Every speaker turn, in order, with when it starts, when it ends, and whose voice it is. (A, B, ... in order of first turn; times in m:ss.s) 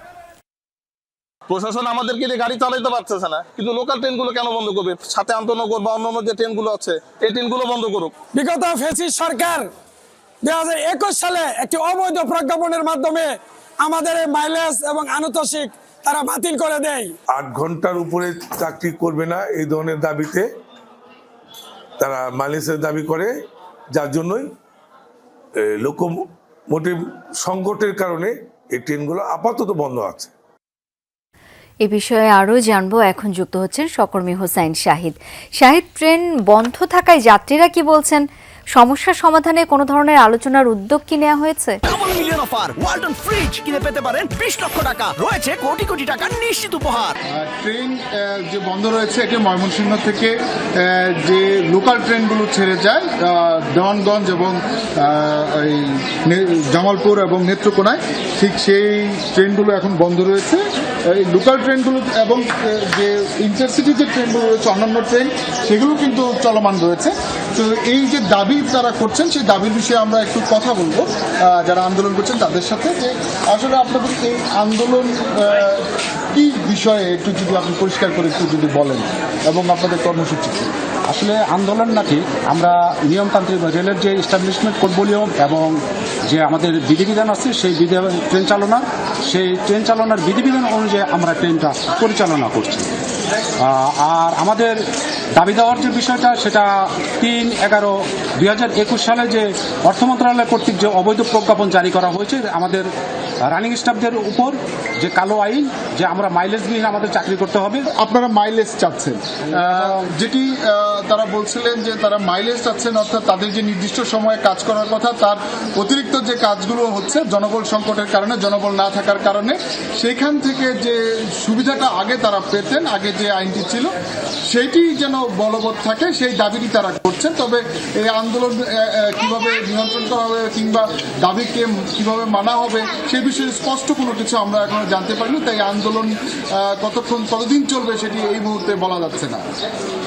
0:01.5-0:08.2 A
0:08.2-0:09.7 B
0:10.4-0:17.1 B
0:17.3-0:20.4 C
0:22.0-0:23.3 C
0:23.9-0:24.5 C
0:25.6-0:30.3 C
0:31.8-0:41.8 D
0:41.9-0:47.1 E
0:47.3-1:20.7 F
1:21.1-1:32.9 G
1:33.6-1:34.8 G
1:35.4-1:42.9 G
1:43.4-1:47.8 G
1:47.9-2:03.9 F
2:04.5-2:19.4 F